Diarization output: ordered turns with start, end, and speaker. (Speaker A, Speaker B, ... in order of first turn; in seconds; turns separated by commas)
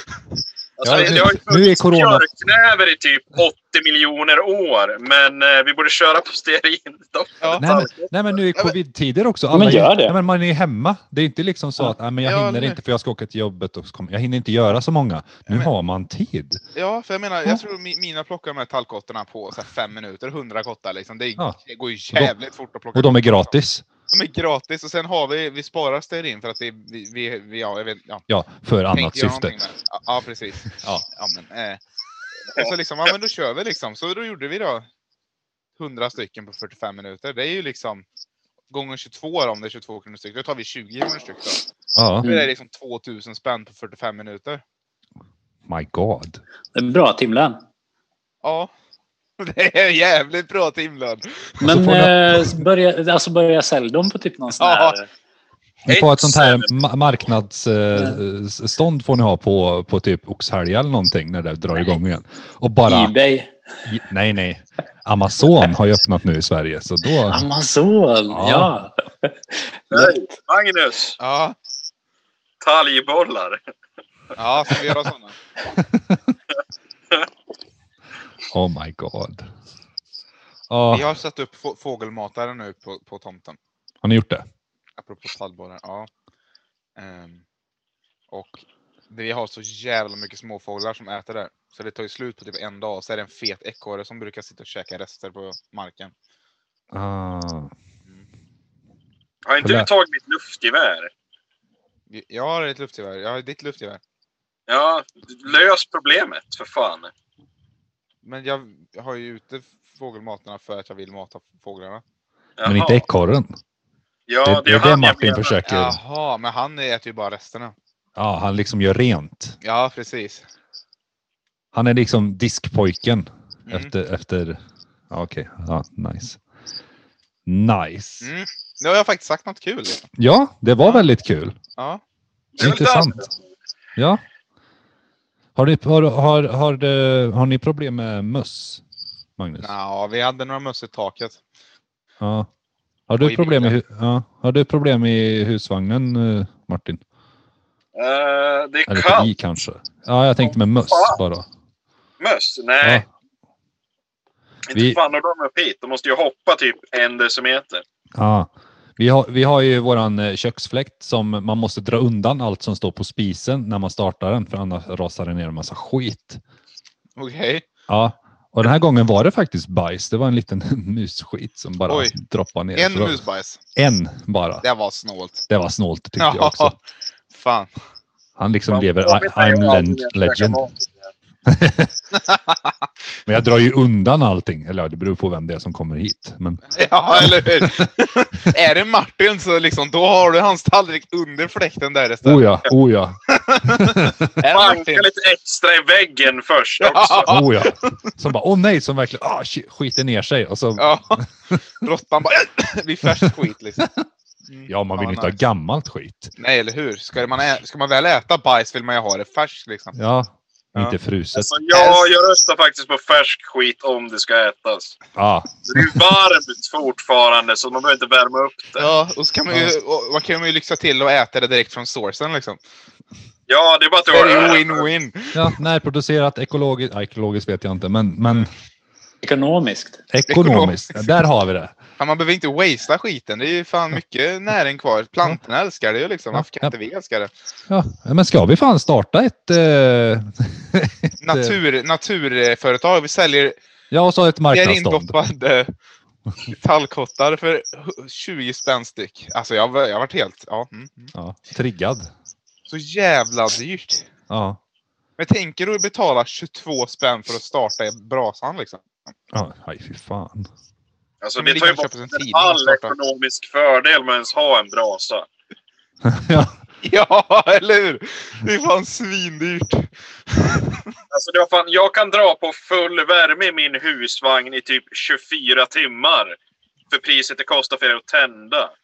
Speaker A: 0.8-8.1, Speaker B: 0.8-2.2, Speaker B: 7.6-16.6, Speaker C: 9.5-10.2, Speaker D: 12.2-12.8, Speaker D: 16.7-23.5, Speaker B: 22.9-23.8, Speaker D: 24.1-28.2, Speaker B: 28.3-29.6, Speaker D: 28.9-31.8, Speaker B: 30.7-31.0, Speaker D: 32.5-34.9, Speaker D: 35.8-38.0, Speaker D: 38.7-41.6, Speaker B: 41.9-42.3, Speaker D: 42.2-44.6, Speaker B: 45.7-46.4, Speaker C: 46.7-47.6, Speaker D: 48.4-48.7, Speaker D: 49.4-51.6, Speaker B: 51.6-52.6, Speaker C: 51.6-55.1, Speaker D: 54.6-55.0, Speaker A: 55.9-56.7, Speaker B: 55.9-63.1, Speaker C: 57.9-58.2, Speaker C: 62.9-63.5, Speaker B: 63.9-67.4, Speaker C: 67.2-70.2, Speaker B: 68.3-68.7, Speaker A: 69.9-71.2, Speaker D: 71.2-71.5, Speaker A: 72.6-73.6, Speaker D: 74.3-75.3, Speaker B: 75.7-76.3, Speaker B: 78.5-79.5, Speaker B: 80.7-81.1, Speaker D: 80.9-83.6, Speaker B: 84.0-84.4, Speaker D: 85.0-86.1, Speaker D: 87.0-87.4, Speaker D: 88.3-96.1, Speaker B: 96.9-97.7, Speaker A: 99.5-101.1, Speaker B: 99.6-99.9, Speaker D: 102.1-104.0, Speaker A: 104.7-107.1, Speaker D: 108.2-112.0, Speaker A: 112.6-113.0, Speaker B: 112.6-113.5, Speaker A: 114.3-115.6, Speaker B: 114.4-116.0, Speaker D: 115.7-117.7, Speaker B: 118.2-119.6, Speaker D: 119.6-120.4, Speaker B: 121.7-124.6, Speaker D: 123.7-123.9, Speaker B: 125.1-126.4, Speaker B: 127.5-128.3, Speaker D: 128.2-130.1, Speaker B: 130.2-131.6, Speaker D: 131.8-132.0, Speaker A: 132.6-133.3, Speaker B: 132.6-133.2, Speaker B: 134.0-134.2, Speaker B: 135.6-138.8, Speaker B: 139.4-139.7, Speaker D: 139.6-141.4, Speaker B: 142.2-142.5, Speaker B: 143.1-147.0, Speaker D: 143.2-143.8, Speaker A: 147.9-149.3, Speaker B: 148.9-151.5, Speaker A: 150.4-151.2, Speaker A: 152.2-153.0, Speaker A: 154.7-157.8, Speaker B: 154.7-155.0, Speaker B: 158.2-166.4, Speaker D: 167.2-167.7, Speaker B: 167.9-173.2, Speaker D: 171.9-172.1, Speaker D: 172.7-173.6, Speaker B: 173.8-174.6, Speaker D: 174.6-175.4, Speaker B: 175.5-176.7, Speaker D: 176.2-176.8, Speaker D: 177.3-177.7, Speaker B: 178.4-180.6, Speaker A: 178.7-181.1, Speaker B: 181.4-181.9, Speaker D: 182.1-182.7, Speaker B: 183.2-187.9, Speaker D: 186.7-192.5, Speaker B: 192.2-194.3, Speaker D: 193.3-195.1, Speaker A: 194.5-197.3, Speaker D: 196.8-197.9, Speaker B: 197.3-201.3, Speaker D: 200.8-201.2, Speaker D: 201.8-203.9, Speaker B: 203.1-203.9, Speaker D: 204.5-205.3, Speaker B: 204.7-206.3, Speaker D: 206.4-209.9, Speaker B: 209.9-211.5, Speaker A: 211.3-215.0, Speaker D: 211.7-212.1, Speaker B: 215.1-216.1, Speaker A: 215.7-218.9, Speaker D: 218.8-222.6, Speaker A: 223.5-224.9, Speaker D: 224.1-225.6, Speaker B: 225.3-228.5, Speaker C: 229.2-230.0, Speaker B: 230.1-231.7, Speaker D: 230.3-231.1, Speaker D: 232.0-237.3, Speaker B: 236.3-236.7, Speaker B: 237.7-241.6, Speaker D: 241.2-243.6, Speaker B: 243.9-245.2, Speaker D: 244.5-245.7, Speaker D: 246.4-251.1, Speaker B: 251.1-252.1, Speaker D: 252.7-254.1, Speaker B: 254.3-254.6, Speaker D: 255.2-259.0, Speaker B: 259.3-260.5, Speaker A: 261.2-265.3, Speaker D: 261.4-262.9, Speaker B: 266.0-266.5, Speaker D: 266.8-270.9, Speaker A: 271.1-276.4, Speaker A: 276.9-278.7